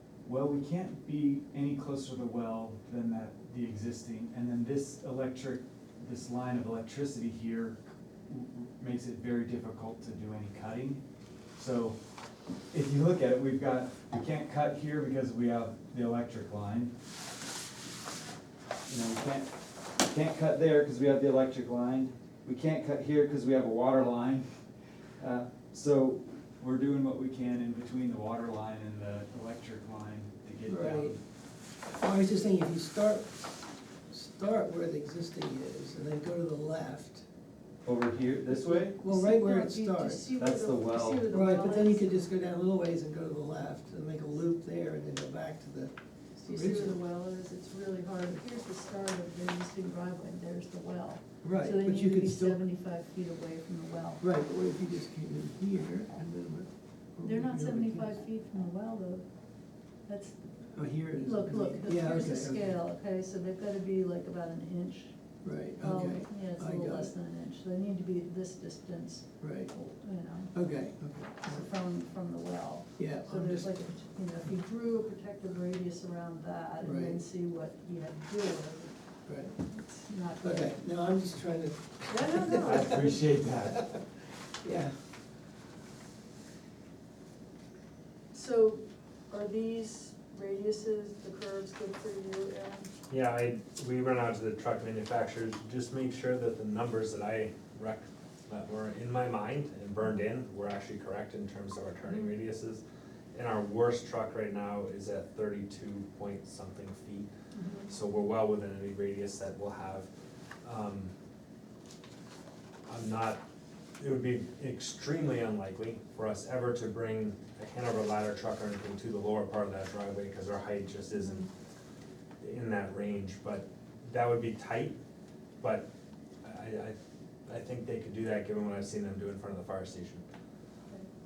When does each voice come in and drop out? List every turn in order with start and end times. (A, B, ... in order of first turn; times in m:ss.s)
0:00.2-0:11.0 A
0:11.5-0:12.0 A
0:12.7-0:16.9 A
0:18.9-0:24.5 A
0:25.2-0:31.2 A
0:30.7-0:31.2 B
0:32.0-0:37.2 B
0:37.8-0:39.0 A
0:38.7-0:42.1 C
0:39.0-0:40.4 B
0:40.4-0:41.3 A
0:41.3-0:47.0 B
0:46.4-0:54.2 C
0:51.4-0:52.6 B
0:54.2-0:58.2 B
0:57.2-1:05.2 C
1:00.7-1:02.8 B
1:05.4-1:07.1 B
1:05.7-1:20.8 C
1:09.4-1:09.7 B
1:10.5-1:11.7 B
1:13.0-1:13.8 B
1:16.8-1:17.2 B
1:19.3-1:19.6 B
1:20.4-1:24.0 B
1:22.1-1:23.0 C
1:22.6-1:23.9 A
1:24.6-1:25.0 B
1:28.3-1:32.9 C
1:33.1-1:42.8 D
1:42.0-1:42.3 C
1:43.3-1:47.3 D
1:47.5-1:47.9 C
1:47.9-1:50.1 D
1:50.6-1:51.1 D
1:52.9-1:53.4 D
1:54.0-2:01.4 D
2:01.1-2:01.5 C
2:02.4-2:05.0 D
2:05.6-2:05.9 D
2:06.4-2:10.2 D